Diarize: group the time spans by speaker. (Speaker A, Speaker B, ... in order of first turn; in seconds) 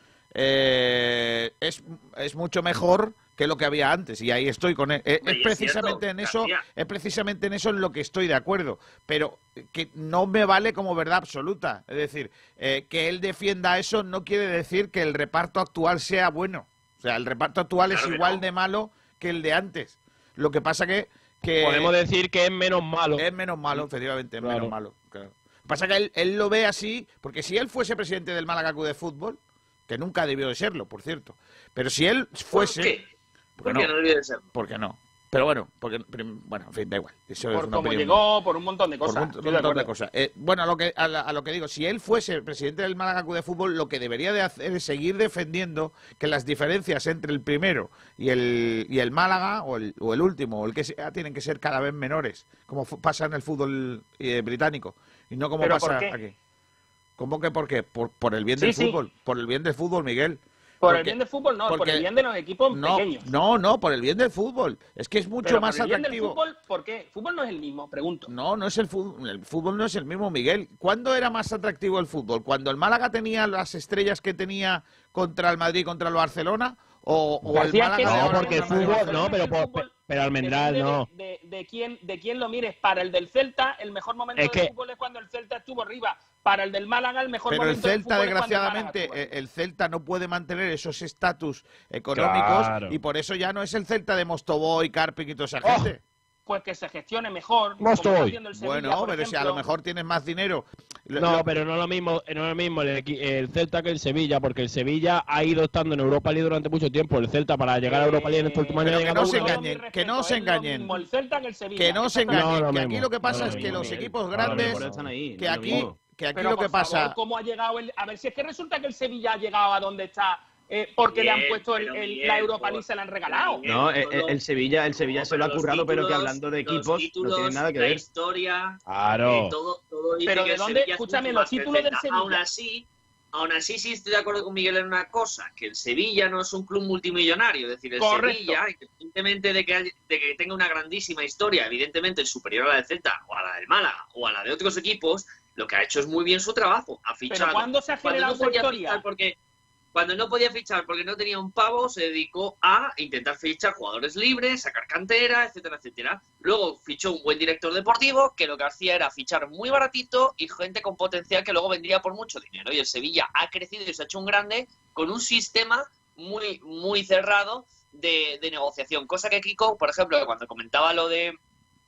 Speaker A: 0.3-21.9, 23.2-32.9, 33.6-33.9, 34.5-38.2, 39.0-56.3, 57.2-62.1, 62.7-66.4, 68.3-79.3, 87.5-96.0, 98.5-101.5, 108.8-111.0, 111.8-114.8, 115.4-117.2
Speaker B: 5.2-6.6, 17.9-18.4, 32.5-33.0, 33.6-34.5, 121.1-124.4, 125.0-149.4, 149.9-171.4
Speaker C: 21.6-23.9, 24.4-24.7, 77.5-81.1, 84.4-84.7, 92.1-93.0, 95.6-95.9, 97.8-98.4, 101.2-109.6, 112.3-115.1, 128.9-129.6
Speaker D: 37.5-39.9, 55.6-56.1, 58.6-59.0, 60.8-63.3, 65.4-68.3, 77.5-89.3, 96.5-99.7, 107.9-112.5, 116.3-123.7, 130.2-132.4, 138.0-138.6, 147.3-149.0
Speaker E: 113.3-116.0, 123.7-128.0